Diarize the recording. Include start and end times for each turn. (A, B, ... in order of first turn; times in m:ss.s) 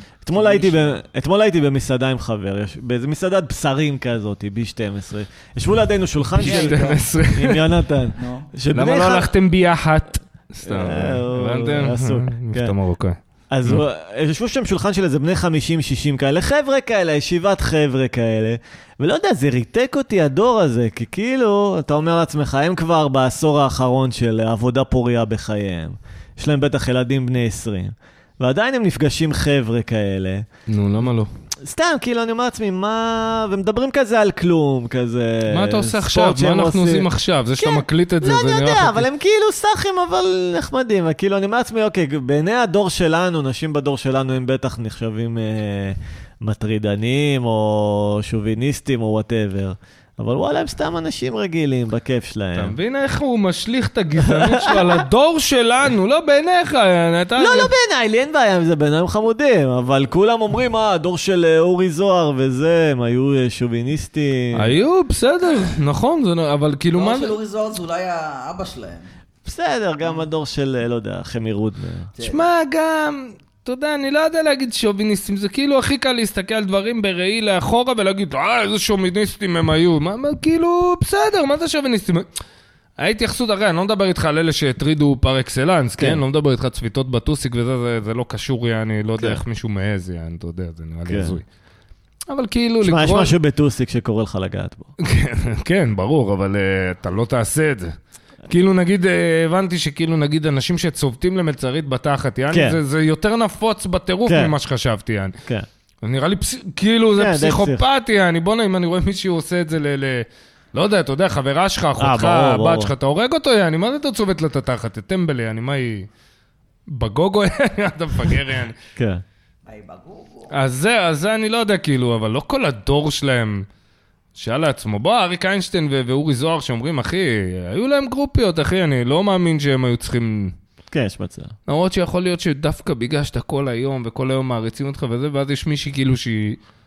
0:00.2-0:09.3 A
0:00.3-0:01.0 B
0:06.4-0:07.0 B
0:06.4-0:07.8 C
0:08.2-0:08.5 B
0:08.7-0:13.8 C
0:10.7-0:12.8 A
0:13.5-0:30.5 A
0:30.7-0:31.3 C
0:31.6-0:37.1 A
0:35.5-0:39.1 C
0:37.6-0:52.8 A
0:52.6-0:57.7 C
0:54.2-0:55.0 A
0:57.4-1:04.8 A
1:04.5-1:07.4 C
1:06.9-1:09.1 B
1:09.4-1:12.1 A
1:12.2-1:12.5 B
1:12.2-1:22.3 C
1:23.0-1:31.4 C
1:26.0-1:26.2 A
1:31.1-1:31.4 A
1:32.3-1:33.3 C
1:32.8-1:34.9 A
1:35.0-1:38.0 C
1:38.5-1:45.4 C
1:42.5-1:42.8 A
1:44.3-1:44.5 A
1:46.0-1:56.1 C
1:47.2-1:47.8 A
1:52.0-1:52.9 A
1:56.9-1:58.7 C
1:59.0-1:59.2 A
1:59.7-2:00.5 B
2:00.5-2:03.6 C
2:04.4-2:10.5 C
2:10.9-2:11.5 A
2:11.7-2:16.6 C